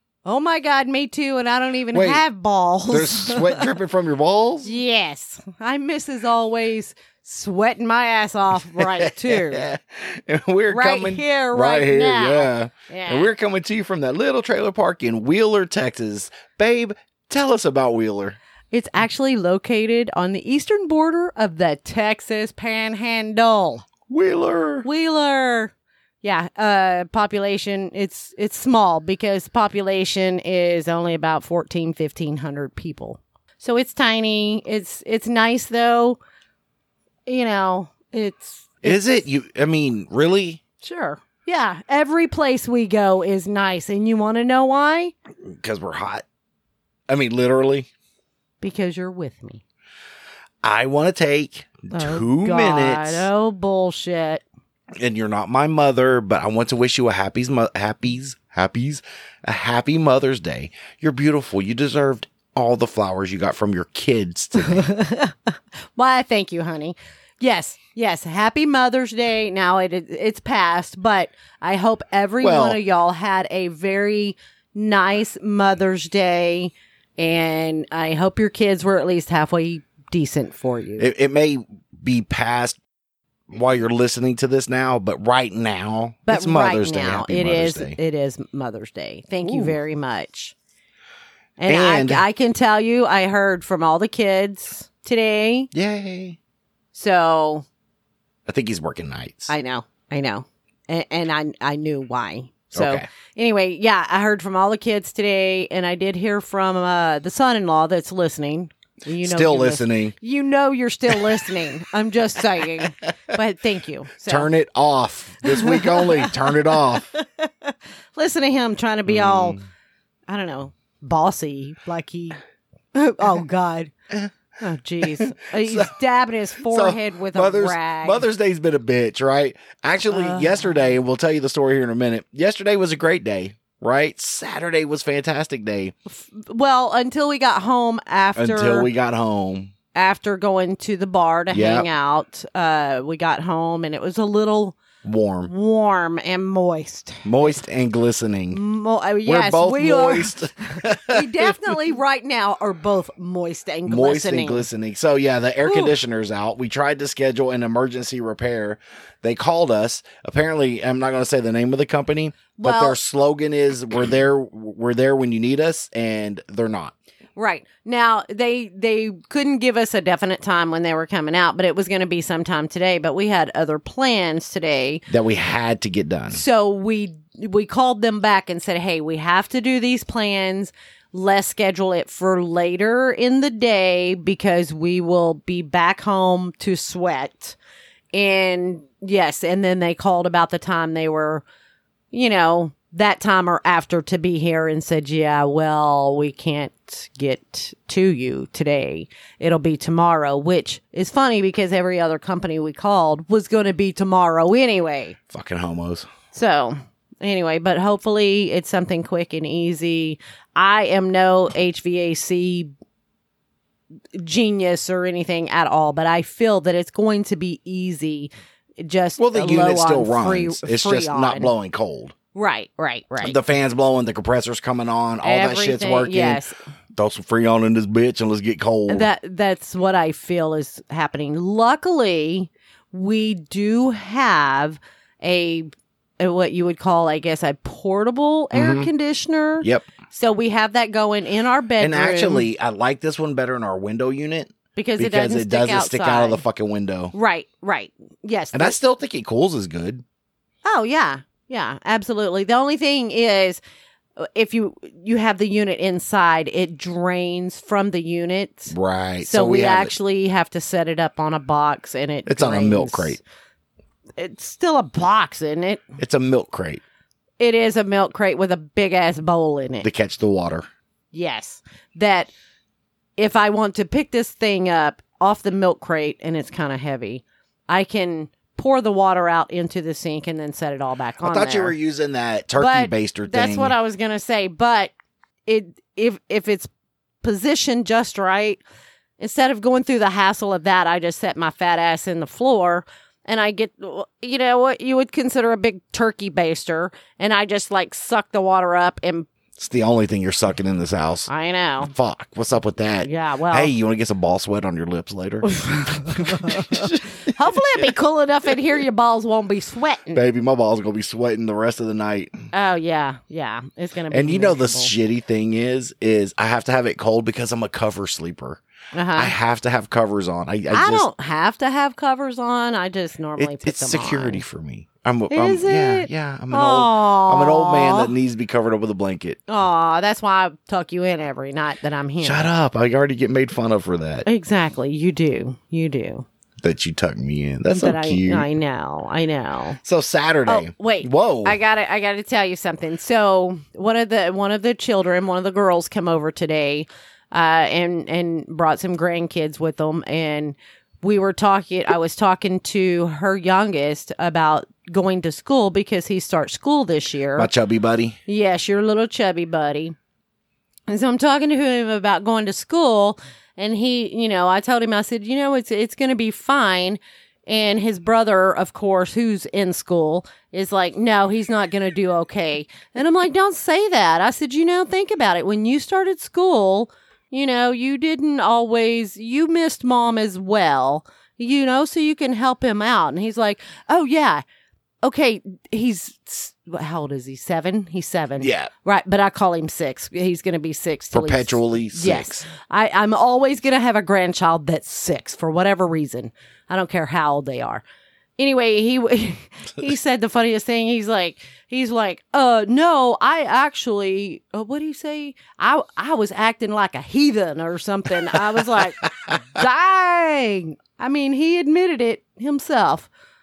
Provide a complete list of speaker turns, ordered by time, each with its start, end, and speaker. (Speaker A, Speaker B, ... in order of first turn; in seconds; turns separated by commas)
Speaker A: 0.2-3.7, Speaker B: 1.9-2.2, Speaker B: 2.9-4.7, Speaker A: 4.6-9.7, Speaker B: 8.7-18.4, Speaker A: 10.7-13.3, Speaker A: 18.7-23.9, Speaker B: 24.1-24.9, Speaker A: 24.8-36.2, Speaker A: 37.2-39.0, Speaker B: 38.8-40.6, Speaker A: 40.8-45.1, Speaker B: 45.4-46.2, Speaker B: 47.1-47.9, Speaker A: 48.6-49.6, Speaker B: 50.6-53.3, Speaker A: 51.9-54.4, Speaker B: 55.0-64.8, Speaker A: 64.6-81.1, Speaker B: 72.4-72.8, Speaker B: 81.0-82.8, Speaker B: 83.5-88.0, Speaker A: 86.3-90.5, Speaker B: 89.4-89.8, Speaker A: 91.6-95.7, Speaker B: 91.7-92.2, Speaker B: 95.7-96.4, Speaker A: 96.9-97.7, Speaker B: 98.5-99.5, Speaker A: 99.5-114.5, Speaker B: 102.7-103.0, Speaker B: 109.2-110.1, Speaker B: 111.1-111.7, Speaker B: 114.2-117.1, Speaker A: 115.4-119.6, Speaker B: 119.1-119.6, Speaker A: 120.3-122.4, Speaker A: 122.9-123.9, Speaker A: 124.6-128.2, Speaker B: 125.0-125.9, Speaker B: 126.7-135.9, Speaker A: 130.1-130.8, Speaker A: 136.1-138.9, Speaker B: 138.3-139.7, Speaker A: 139.9-144.8, Speaker B: 141.5-141.9, Speaker B: 145.0-145.5, Speaker A: 145.4-147.6, Speaker B: 147.2-148.6, Speaker A: 148.5-154.7, Speaker B: 149.2-151.7, Speaker B: 153.8-166.9, Speaker A: 155.6-155.9, Speaker A: 162.6-162.9, Speaker A: 167.3-175.0, Speaker B: 175.1-176.4, Speaker A: 176.3-187.6, Speaker A: 188.1-191.4, Speaker A: 192.1-205.2, Speaker B: 205.3-206.1, Speaker A: 206.3-212.7, Speaker A: 214.1-221.5, Speaker B: 219.2-222.1, Speaker A: 222.3-223.4, Speaker B: 223.2-226.4, Speaker A: 225.2-226.5, Speaker B: 226.9-229.1, Speaker A: 228.9-235.7, Speaker A: 236.2-242.5, Speaker B: 238.5-238.9, Speaker B: 241.8-247.1, Speaker A: 244.8-246.4, Speaker A: 247.1-248.8, Speaker B: 248.5-250.0, Speaker A: 250.6-253.6, Speaker A: 254.2-263.2, Speaker B: 258.7-259.9, Speaker B: 262.2-263.2, Speaker A: 264.2-265.9, Speaker B: 266.0-266.8, Speaker A: 267.4-269.9, Speaker B: 269.8-270.7, Speaker A: 271.1-272.3, Speaker A: 273.2-281.8, Speaker B: 281.2-283.8, Speaker A: 282.6-284.9, Speaker A: 285.5-286.7, Speaker A: 287.2-288.6, Speaker A: 289.2-299.3, Speaker B: 299.6-301.3, Speaker A: 301.3-301.9, Speaker B: 301.8-307.9, Speaker A: 303.0-303.7, Speaker A: 305.5-310.2, Speaker B: 310.1-312.3, Speaker A: 312.5-314.9, Speaker B: 314.1-318.6, Speaker A: 318.9-319.3, Speaker B: 319.1-321.1, Speaker A: 320.7-324.4, Speaker B: 323.4-329.4, Speaker A: 325.3-328.1, Speaker A: 329.5-332.5, Speaker B: 332.2-334.2, Speaker A: 334.2-336.2, Speaker B: 336.6-338.5, Speaker A: 337.7-339.8, Speaker B: 339.8-341.6, Speaker A: 340.5-357.5, Speaker B: 357.4-358.2, Speaker A: 358.3-359.9, Speaker A: 360.9-384.4, Speaker A: 385.0-397.8, Speaker B: 388.4-388.7, Speaker B: 391.1-392.4, Speaker A: 398.4-413.1, Speaker B: 408.3-409.4